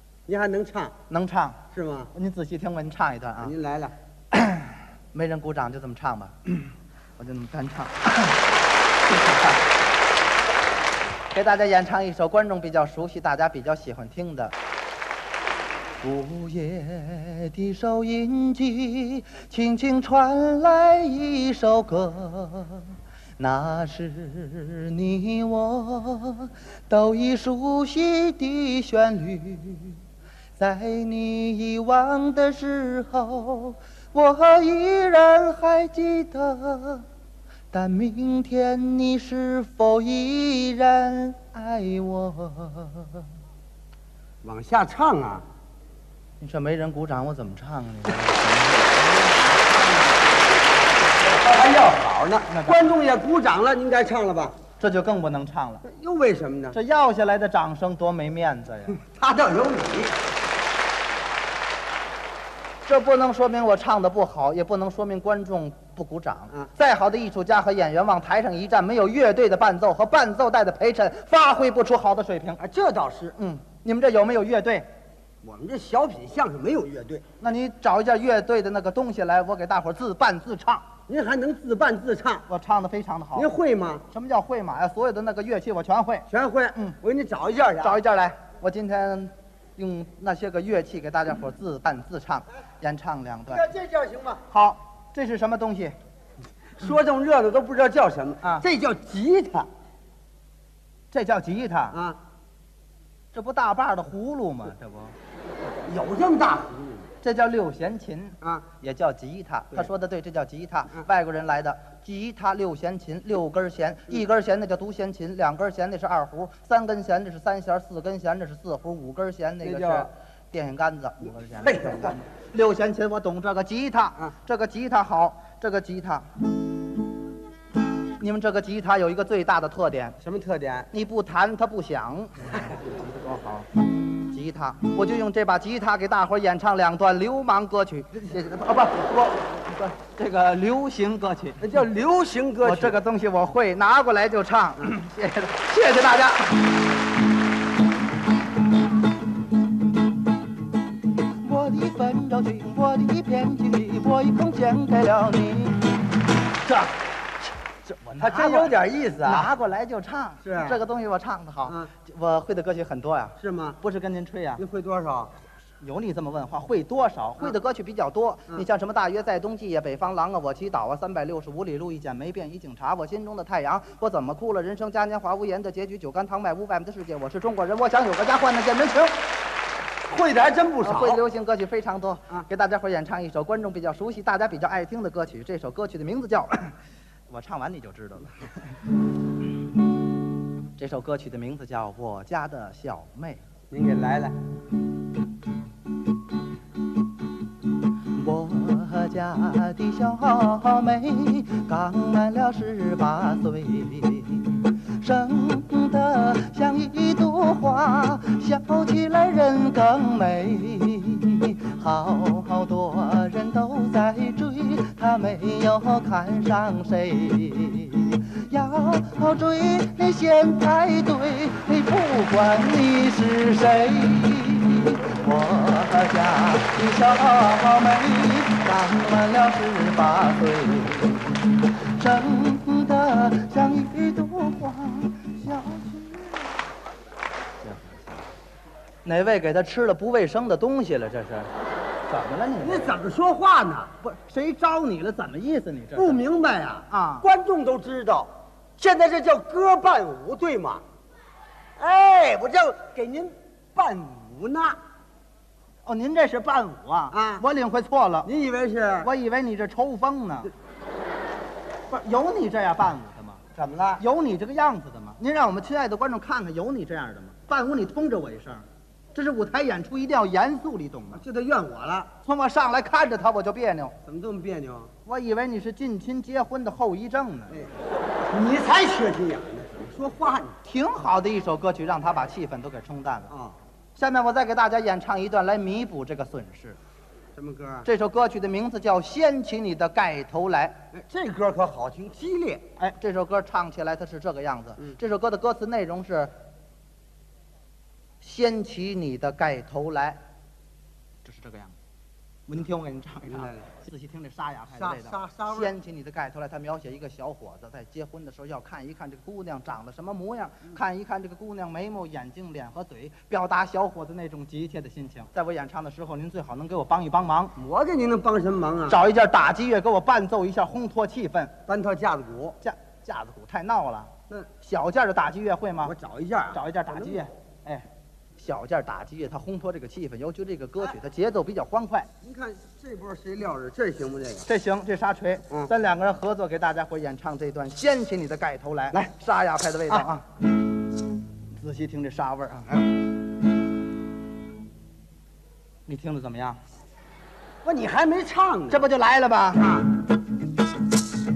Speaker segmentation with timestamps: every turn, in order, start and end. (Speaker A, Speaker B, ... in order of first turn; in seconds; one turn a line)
Speaker A: 0.3-0.9
Speaker B: 1.1-1.6
Speaker A: 1.7-2.1
Speaker B: 2.1-3.5
Speaker A: 3.4-3.9
Speaker B: 4.3-6.6
Speaker B: 7.2-8.4
Speaker B: 9.1-9.6
Speaker B: 11.3-14.5
Speaker B: 16.0-30.0
Speaker B: 30.6-37.1
Speaker B: 37.7-43.2
Speaker A: 44.4-45.5
Speaker B: 46.4-49.0
Speaker A: 49.0-50.4
Speaker A: 51.1-54.6
Speaker B: 52.5-52.9
Speaker B: 54.8-55.8
Speaker A: 55.8-56.8
Speaker B: 56.7-59.0
Speaker A: 59.0-60.2
Speaker B: 62.9-72.6
Speaker A: 72.6-73.4
Speaker B: 73.4-74.9
Speaker A: 75.4-77.2
Speaker B: 77.4-80.9
Speaker A: 81.1-82.5
Speaker B: 82.5-83.5
Speaker A: 83.3-84.0
Speaker B: 84.1-87.0
Speaker A: 86.3-88.0
Speaker B: 87.8-93.7
Speaker A: 93.5-94.4
Speaker B: 94.5-96.0
Speaker A: 96.8-99.7
Speaker B: 101.1-102.0
Speaker A: 101.9-102.2
Speaker B: 103.3-105.2
Speaker A: 105.8-107.1
Speaker B: 107.2-126.3
Speaker A: 119.6-120.1
Speaker A: 121.6-122.2
Speaker B: 128.2-130.2
Speaker A: 130.2-130.9
Speaker B: 130.9-141.6
Speaker A: 141.6-143.0
Speaker B: 142.6-146.6
Speaker B: 151.4-155.9
Speaker B: 156.7-156.9
Speaker B: 157.9-164.6
Speaker A: 158.2-159.5
Speaker A: 160.4-160.8
Speaker A: 163.4-163.8
Speaker A: 164.6-165.3
Speaker B: 165.8-179.2
Speaker A: 180.1-181.2
Speaker B: 180.8-186.8
Speaker B: 187.3-188.7
Speaker B: 190.8-193.4
Speaker A: 193.7-194.4
Speaker B: 198.1-236.5
Speaker B: 237.6-238.2
Speaker B: 239.0-241.5
Speaker B: 242.1-243.0
Speaker A: 242.6-243.9
Speaker B: 244.0-246.2
Speaker A: 245.9-250.8
Speaker B: 246.9-247.3
Speaker A: 251.8-254.8
Speaker B: 255.8-258.3
Speaker A: 257.1-257.4
Speaker A: 258.2-259.1
Speaker B: 259.0-260.5
Speaker B: 261.9-263.4
Speaker A: 263.6-264.0
Speaker B: 264.0-271.2
Speaker A: 271.1-272.1
Speaker B: 272.2-274.0
Speaker A: 274.1-274.9
Speaker B: 275.1-277.6
Speaker A: 278.3-280.6
Speaker B: 280.6-283.3
Speaker A: 283.3-283.6
Speaker B: 283.9-286.8
Speaker A: 287.4-287.9
Speaker B: 287.9-290.8
Speaker A: 290.9-292.6
Speaker B: 292.8-296.3
Speaker B: 298.2-300.2
Speaker B: 301.2-301.8
Speaker B: 302.5-317.6
Speaker A: 303.3-303.7
Speaker A: 304.7-305.7
Speaker A: 317.6-319.0
Speaker B: 318.9-321.5
Speaker A: 321.7-322.6
Speaker B: 322.6-325.9
Speaker A: 325.8-327.2
Speaker B: 326.5-332.1
Speaker A: 332.2-334.5
Speaker B: 334.4-340.3
Speaker B: 341.6-342.7
Speaker B: 345.9-346.6
Speaker A: 347.6-348.8
Speaker B: 348.7-349.7
Speaker A: 349.6-349.9